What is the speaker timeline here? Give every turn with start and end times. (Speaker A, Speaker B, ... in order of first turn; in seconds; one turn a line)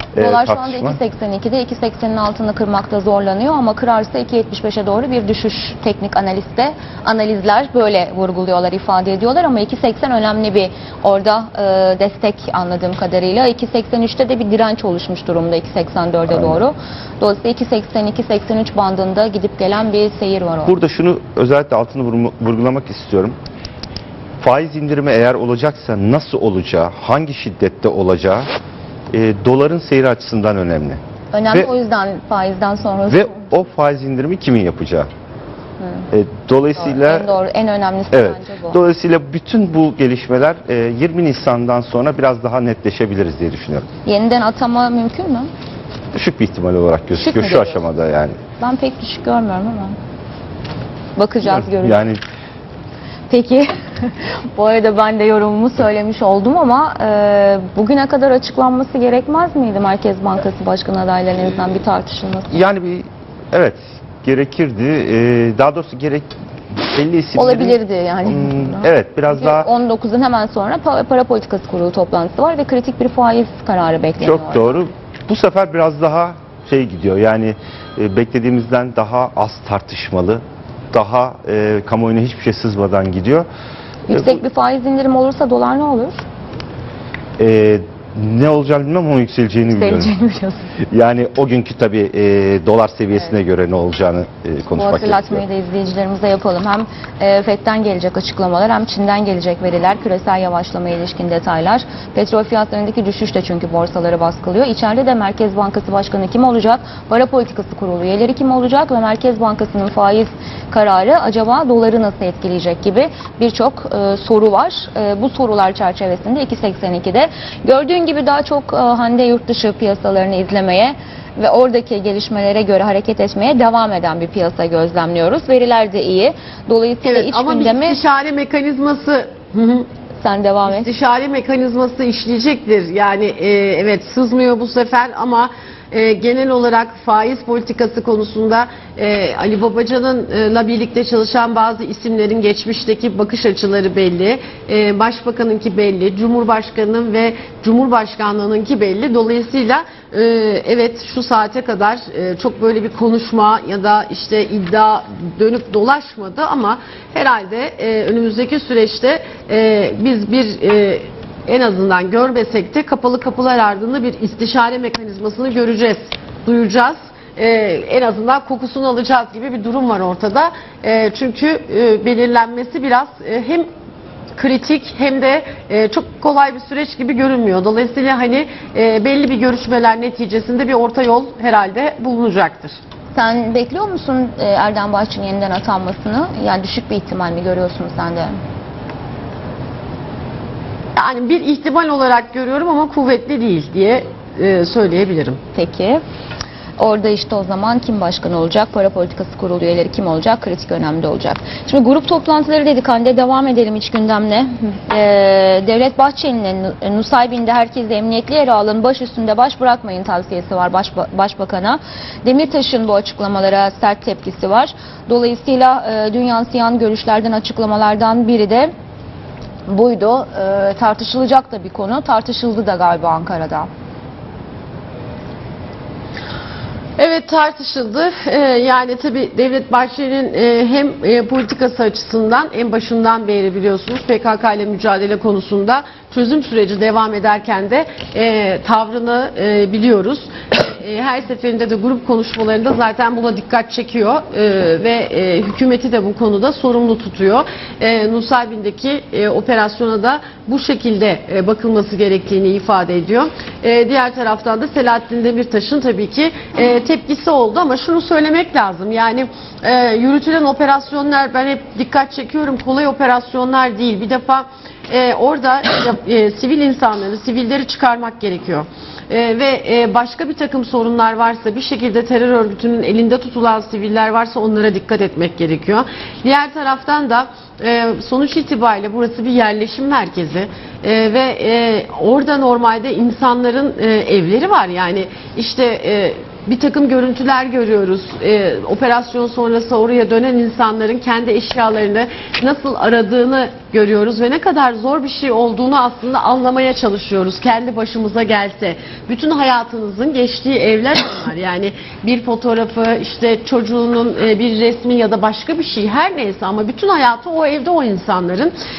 Speaker A: 0.1-1.0
Speaker B: 0.1-20.7
Speaker A: 16.3-16.6
Speaker A: 20.6-23.4
Speaker A: 24.4-28.5
Speaker A: 29.1-31.0
Speaker B: 31.3-33.5
Speaker A: 33.1-35.1
Speaker B: 35.8-36.1
Speaker A: 36.1-37.3
Speaker B: 36.8-38.8
Speaker A: 38.1-43.9
Speaker B: 44.0-45.5
Speaker A: 46.1-48.4
Speaker B: 47.2-47.8
Speaker B: 48.6-50.0
Speaker B: 51.2-52.0
Speaker A: 51.5-52.2
Speaker B: 53.3-62.6
Speaker A: 62.5-69.7
Speaker B: 67.3-74.8
Speaker A: 74.2-83.5
Speaker B: 84.1-86.2
Speaker A: 84.1-84.4
Speaker A: 87.4-90.1
Speaker B: 89.7-90.7
Speaker A: 90.9-95.4
Speaker B: 94.8-128.0
Speaker C: 127.0-129.9
Speaker B: 130.2-130.9
Speaker C: 130.7-173.7
Speaker C: 174.4-182.8
Speaker B: 183.1-188.4
Speaker C: 190.9-195.4
Speaker B: 195.5-196.0
Speaker B: 196.8-218.7
Speaker B: 219.7-223.7
Speaker C: 227.0-308.5